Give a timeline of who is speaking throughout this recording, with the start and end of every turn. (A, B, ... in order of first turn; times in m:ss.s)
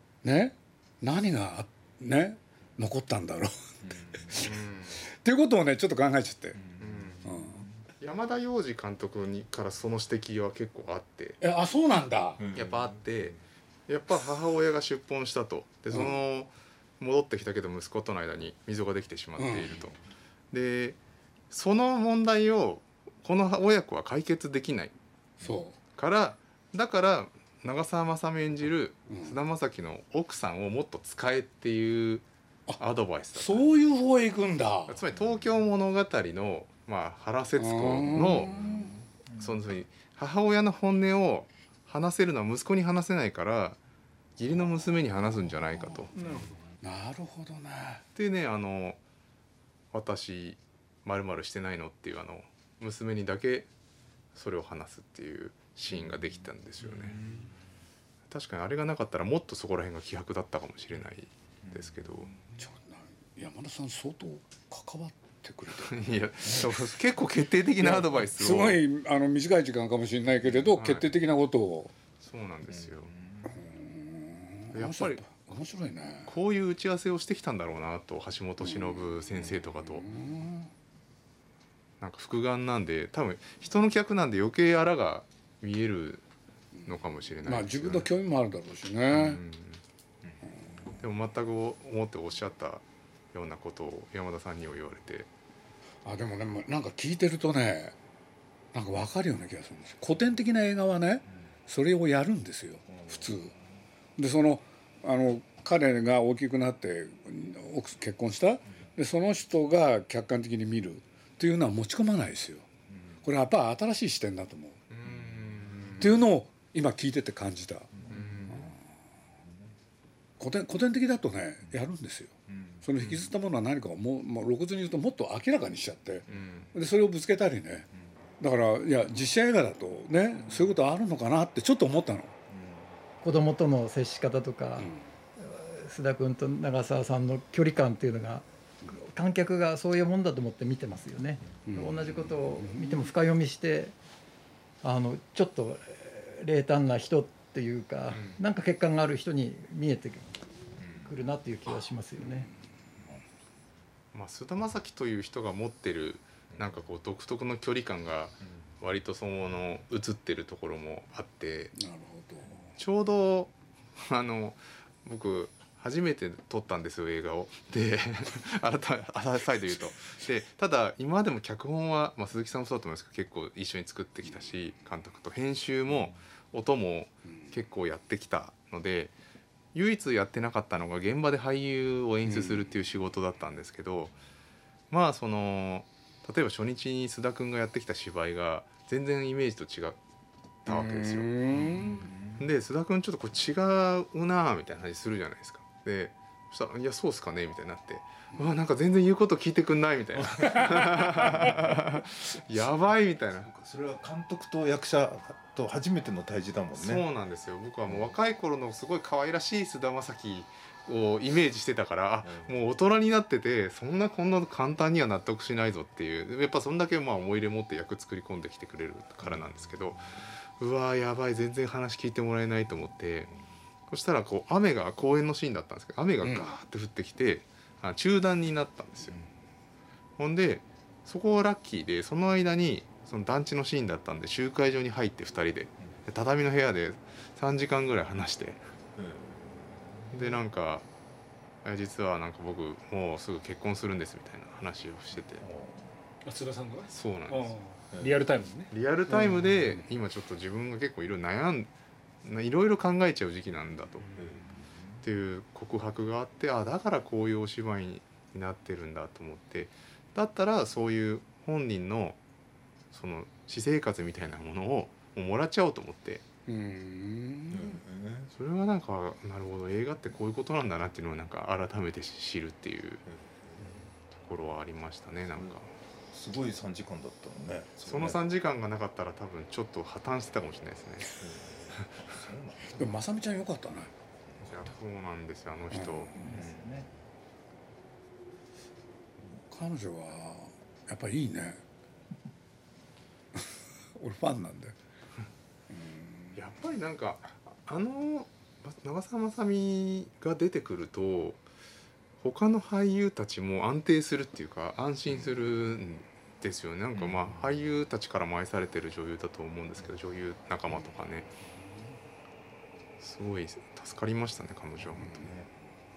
0:00.2-0:06.6 A
0:04.3-0:05.0 B
0:06.8-0:07.3 B
0:07.2-0:07.6 A
0:08.0-0:11.4 B
0:11.4-0:12.4 A
0:12.4-0:12.8 C
0:12.5-0:13.4 B
0:13.9-0:20.0 B
0:19.4-0:19.8 A
0:20.5-0:21.0 B
0:21.5-0:24.9 B
0:25.4-0:25.8 A
0:26.0-0:32.2 B
0:29.1-0:29.4 A
0:32.8-0:33.7 B
0:33.3-0:35.0 A
0:34.9-0:38.6 B
0:37.6-0:39.0 A
0:39.3-0:43.8 B
0:44.4-0:46.1 B
0:46.2-0:46.7 D
0:46.8-0:48.0 A
0:48.2-0:49.0 B
0:49.9-0:53.7 B
0:54.3-0:57.2 B
0:58.3-1:02.4 B
1:02.6-1:06.8 A
1:05.8-1:08.8 B
1:07.8-1:11.9 A
1:10.6-1:11.1 B
1:12.2-1:13.1 B
1:13.4-1:16.3 A
1:14.7-1:15.3 B
1:16.3-1:20.1 B
1:18.6-1:19.1 A
1:20.0-1:20.7 A
1:22.0-1:26.2 B
1:26.8-1:28.1 B
1:27.4-1:29.4 A
1:29.1-1:29.8 B
1:31.0-1:35.3 B
1:36.0-1:38.0 A
1:38.7-1:43.5 A
1:44.2-1:52.7 A
1:53.2-1:54.8 A
1:54.9-1:56.2 B
1:56.0-1:58.8 A
1:58.1-1:58.7 B
2:00.4-2:07.9 A
2:03.0-2:03.3 B
2:06.3-2:06.7 B
2:08.4-2:12.4 A
2:13.2-2:24.0 E
2:21.7-2:23.1 A
2:24.8-2:30.4 E
2:31.0-2:32.5 E
2:34.1-2:41.7 B
2:41.8-2:42.7 A
2:42.8-2:59.1 B
2:59.7-3:04.2 B
3:02.2-3:02.7 A
3:04.9-3:10.0 B
3:10.6-3:11.3 B
3:10.7-3:12.1 A
3:12.4-3:23.5 B
3:20.4-3:21.7 C
3:23.4-3:27.0 C
3:26.8-3:40.1 B
3:40.6-3:43.3 B
3:43.9-3:49.2 B
3:46.2-3:46.5 A
3:50.2-3:58.6 B
3:59.0-4:00.1 C
4:00.1-4:00.8 B
4:01.6-4:05.4 B
4:05.4-4:05.8 C
4:06.2-4:09.6 D
4:06.9-4:07.6 B
4:08.7-4:11.7 B
4:12.2-4:14.1 B
4:14.2-4:14.8 C
4:15.0-4:22.2 B
4:22.9-4:26.2 B
4:26.5-4:27.8 A
4:27.5-4:28.3 C
4:28.3-4:33.0 B
4:33.3-4:33.7 C
4:34.2-4:35.7 B
4:36.1-4:38.2 C
4:37.8-4:41.2 B
4:41.2-4:42.8 C
4:42.8-4:43.9 A
4:44.4-4:46.1 B
4:45.7-4:46.3 A
4:46.2-4:46.9 E
4:46.3-4:46.8 C
4:49.5-4:51.6 A
4:53.4-4:54.8 A
4:55.7-4:56.4 A
4:56.4-5:01.4 B
5:02.2-5:11.3 B
5:13.0-5:15.3 B
5:14.9-5:15.5 C